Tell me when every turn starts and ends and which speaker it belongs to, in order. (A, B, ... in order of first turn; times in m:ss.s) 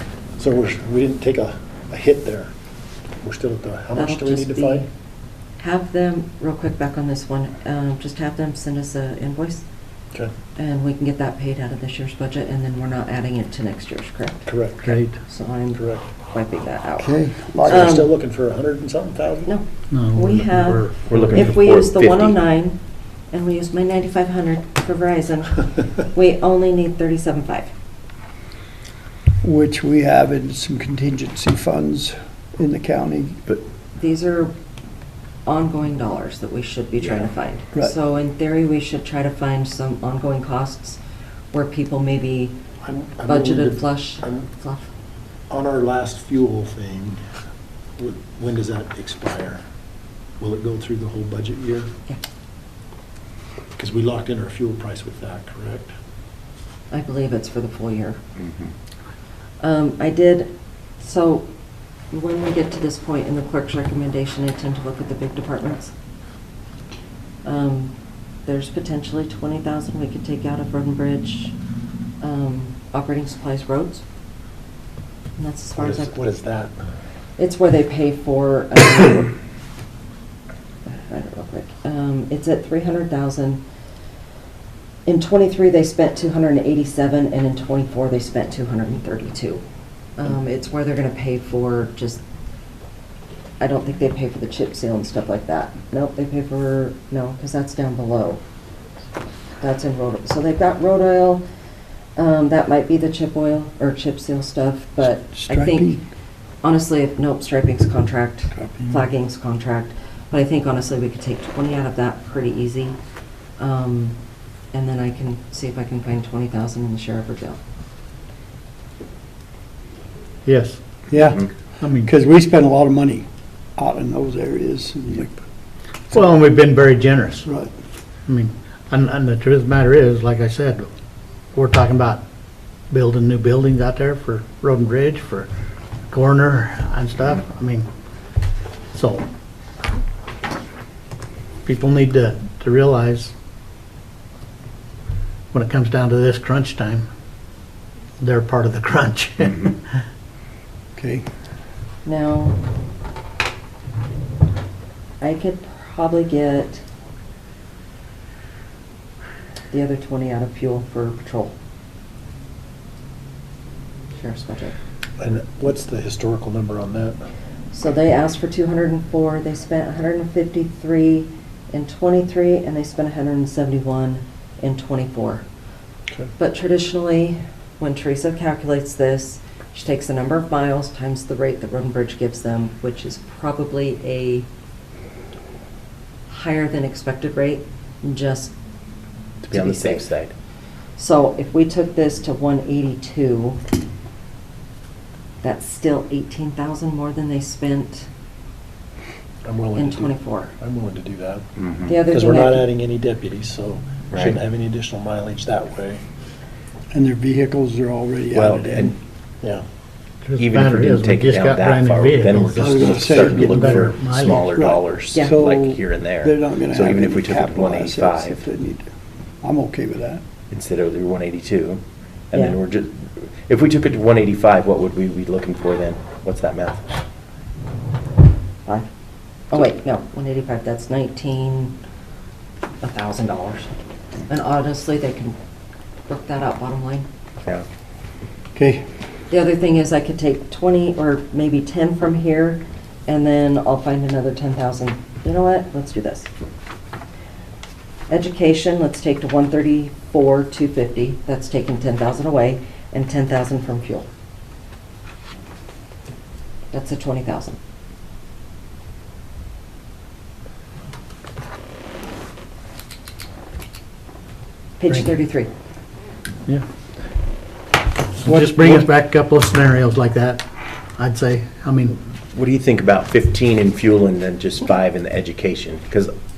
0:00.4-0:02.5 A
0:03.2-0:04.9 A
0:04.0-0:04.9 B
0:05.6-0:09.6 B
0:10.6-0:18.1 B
0:14.4-0:14.8 A
0:14.8-0:15.2 C
0:15.7-0:16.1 A
0:17.0-0:18.0 D
0:17.6-0:19.5 A
0:19.4-0:27.7 B
0:19.9-0:21.5 C
0:21.1-0:22.4 E
0:29.4-0:33.4 D
0:34.0-0:34.5 B
0:35.4-0:41.0 B
0:37.0-0:37.2 E
0:41.5-0:42.6 B
0:42.8-0:44.5 A
0:43.3-0:44.9 B
0:45.5-0:47.2 A
0:48.0-0:49.6 A
0:50.4-0:51.9 A
0:53.8-0:55.9 A
0:56.9-0:58.2 B
0:59.6-1:01.5 B
1:02.1-1:05.9 B
1:07.4-1:07.9 B
1:08.4-1:11.5 B
1:12.2-1:14.0 B
1:15.4-1:16.1 B
1:15.8-1:16.8 A
1:17.4-1:19.4 B
1:21.0-1:23.6 B
1:25.0-1:29.6 B
1:30.2-1:32.2 B
1:33.6-1:38.4 B
1:39.6-1:41.4 B
1:42.2-1:46.0 B
1:45.4-1:46.0 D
1:46.6-1:53.0 B
1:48.6-1:48.9 D
1:53.6-1:54.2 B
1:54.7-1:57.6 B
2:00.4-2:00.8 C
2:01.1-2:05.4 D
2:01.8-2:02.1 C
2:06.1-2:07.5 C
2:07.4-2:07.7 D
2:08.3-2:10.9 C
2:11.5-2:12.2 C
2:12.9-2:15.5 C
2:16.1-2:17.8 C
2:18.9-2:19.3 C
2:21.6-2:23.3 C
2:25.5-2:27.0 C
2:28.2-2:30.0 C
2:30.9-2:31.2 D
2:32.0-2:32.6 B
2:35.2-2:36.8 B
2:39.7-2:41.5 B
2:44.2-2:44.7 B
2:45.2-2:47.2 A
2:47.7-2:55.4 B
2:56.4-3:04.5 B
3:06.3-3:08.5 B
3:09.4-3:10.3 E
3:09.5-3:10.1 B
3:11.0-3:13.6 B
3:15.4-3:18.1 B
3:19.4-3:26.0 A
3:19.8-3:20.5 B
3:21.6-3:21.9 E
3:21.9-3:22.6 B
3:24.1-3:24.4 E
3:26.9-3:28.9 D
3:28.3-3:29.0 E
3:30.2-3:34.5 C
3:30.4-3:38.4 E
3:32.6-3:38.9 D
3:39.4-3:40.2 D
3:40.5-3:47.0 E
3:49.5-3:51.7 B
3:52.8-3:53.7 B
3:54.3-3:55.4 B
3:56.1-3:57.1 B
3:58.5-3:58.8 D
3:59.3-4:06.3 B
4:08.1-4:14.1 B
4:16.7-4:17.6 B
4:24.8-4:25.5 B
4:28.2-4:30.4 C
4:28.2-4:28.9 D
4:31.0-4:32.0 C
4:32.3-4:36.1 E